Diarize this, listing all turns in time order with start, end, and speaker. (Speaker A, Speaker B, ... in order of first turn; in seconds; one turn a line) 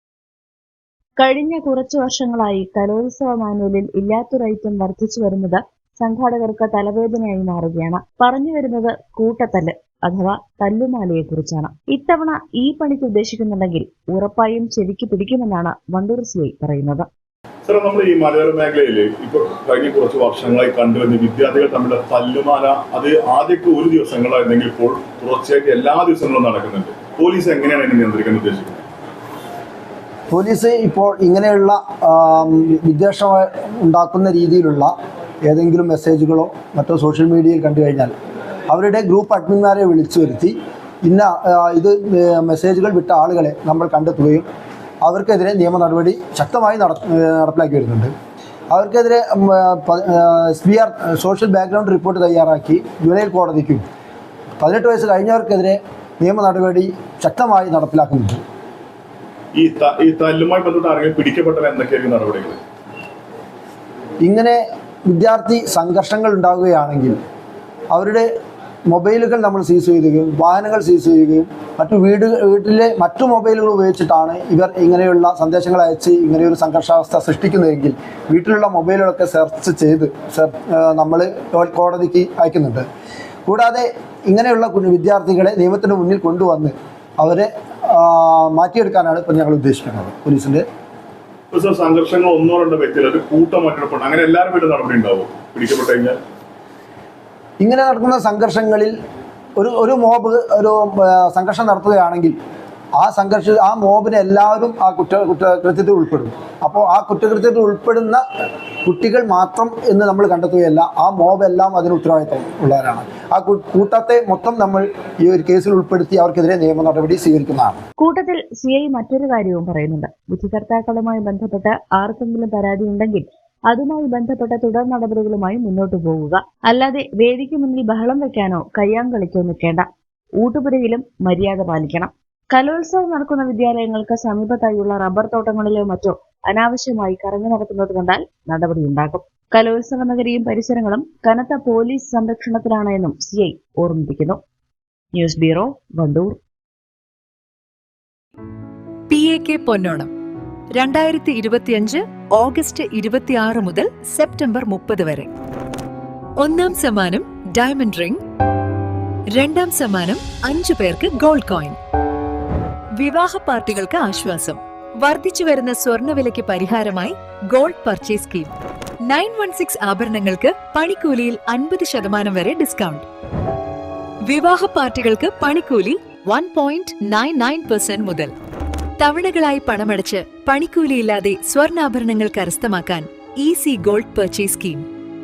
Speaker A: 1.2-17.1
Speaker B: 17.6-28.8
Speaker C: 30.3-34.9
Speaker C: 35.4-38.1
Speaker C: 38.7-44.5
Speaker C: 45.0-48.1
Speaker C: 48.7-53.8
Speaker C: 54.6-58.4
Speaker B: 59.5-62.6
Speaker C: 64.2-67.2
Speaker C: 67.9-68.3
Speaker C: 68.9-82.8
Speaker C: 83.5-90.6
Speaker B: 91.5-96.2
Speaker C: 97.6-98.9
Speaker C: 99.6-102.3
Speaker C: 103.0-108.2
Speaker C: 108.8-117.8
Speaker A: 118.0-129.8
Speaker A: 130.4-144.4
Speaker A: 145.1-146.4
Speaker D: 149.1-150.1
Speaker D: 150.8-155.3
Speaker D: 156.4-158.2
Speaker D: 159.3-161.8
Speaker D: 163.0-168.5
Speaker D: 169.0-173.1
Speaker D: 174.2-178.3
Speaker D: 179.0-184.8